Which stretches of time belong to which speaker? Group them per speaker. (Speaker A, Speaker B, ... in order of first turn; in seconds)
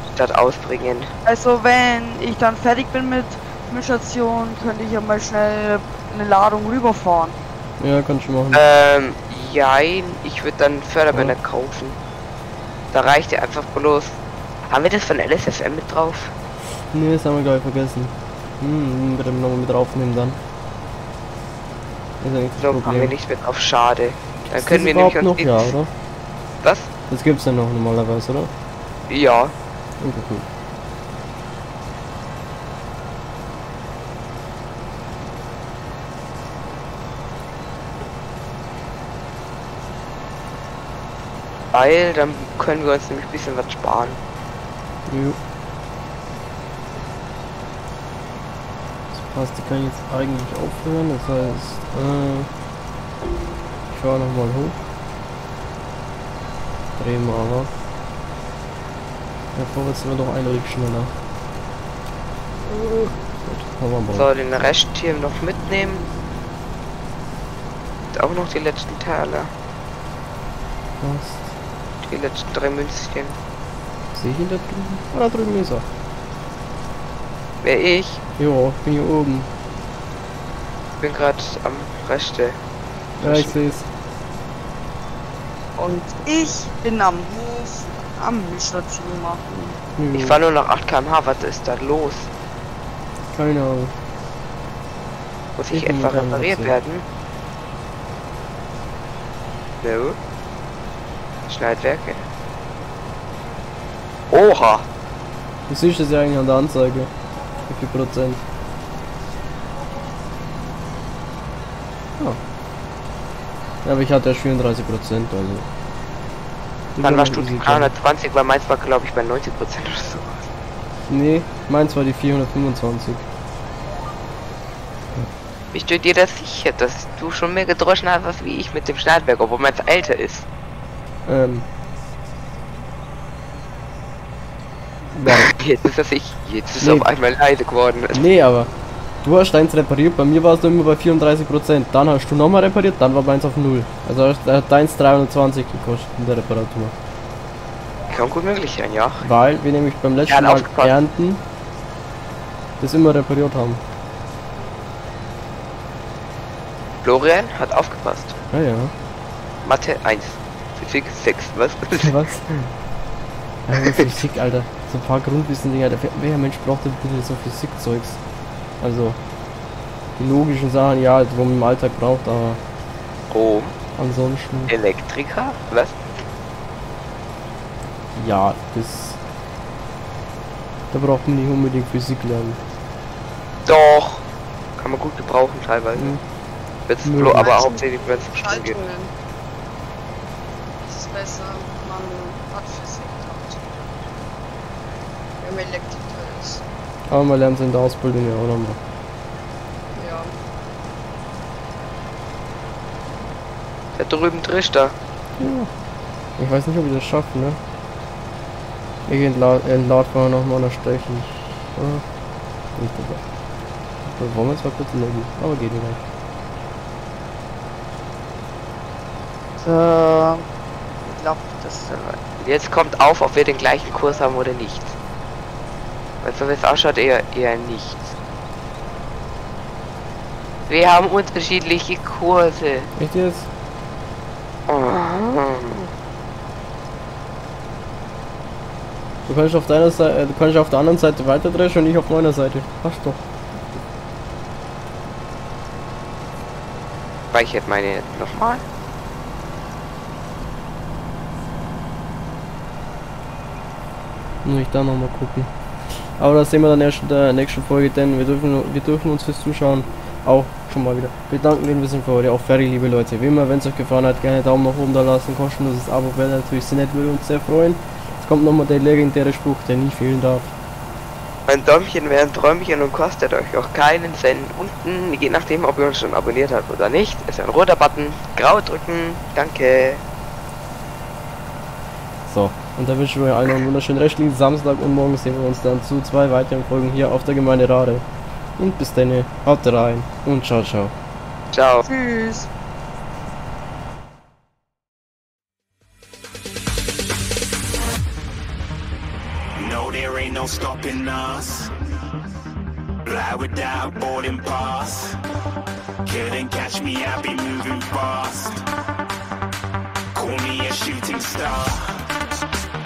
Speaker A: 0.1-1.1, 8.5-12.0, 12.9-16.3, 22.6-25.7, 26.6-26.9, 29.1-29.5, 41.7-44.2, 64.1-66.0, 68.1-69.5, 72.0-73.4, 77.6-78.2, 81.0-82.6, 83.2-83.5, 89.6-92.3, 95.6-97.0, 99.8-100.2, 101.5-102.2, 104.3-104.9, 117.0-120.5, 125.7-130.5, 135.2-138.2, 148.1-149.3, 150.3-150.9, 157.0-158.3, 159.6-162.1, 173.3-173.7, 174.7-176.1, 183.7-184.2, 184.8-186.2, 186.9-188.8, 204.0-204.9, 222.4-224.9, 226.2-228.1, 230.7-232.9, 234.7-235.9, 247.3-248.6, 271.5-280.0, 291.5-291.8
Speaker B: 1.2-7.4, 86.3-87.5, 88.3-89.4, 219.6-220.4, 221.0-222.2, 291.9-292.5
Speaker C: 7.8-8.6, 16.9-20.4, 22.2-23.1, 24.5-25.9, 27.1-28.5, 30.0-30.4, 45.1-45.4, 49.1-52.5, 53.9-54.8, 57.0-57.7, 59.5-61.1, 62.6-64.3, 71.0-71.5, 74.1-75.8, 78.4-79.5, 83.2-83.9, 90.0-90.4, 93.3-93.9, 95.7-96.7, 105.7-107.1, 107.7-108.4, 113.8-115.7, 116.9-117.9, 121.1-123.2, 131.2-131.7, 135.1-135.5, 136.8-137.1, 138.1-138.7, 139.2-146.9, 149.2-151.4, 152.8-153.8, 158.5-158.9, 162.0-162.7, 163.7-168.2, 168.8-169.2, 170.2-172.6, 174.0-174.7, 178.1-179.2, 180.9-182.6, 185.9-186.2, 187.0-187.5, 197.1-198.8, 205.4-205.7, 206.4-207.6, 209.1-212.0, 212.8-213.2, 214.0-216.0, 232.9-233.5, 239.3-243.2, 254.4-270.5, 282.3-288.0, 288.6-290.9
Speaker D: 85.8-89.2, 187.3-189.1, 190.8-193.6, 195.4-196.6, 199.9-200.3
Speaker E: 299.6-301.7, 303.0-305.2, 306.0-308.6, 310.1-312.0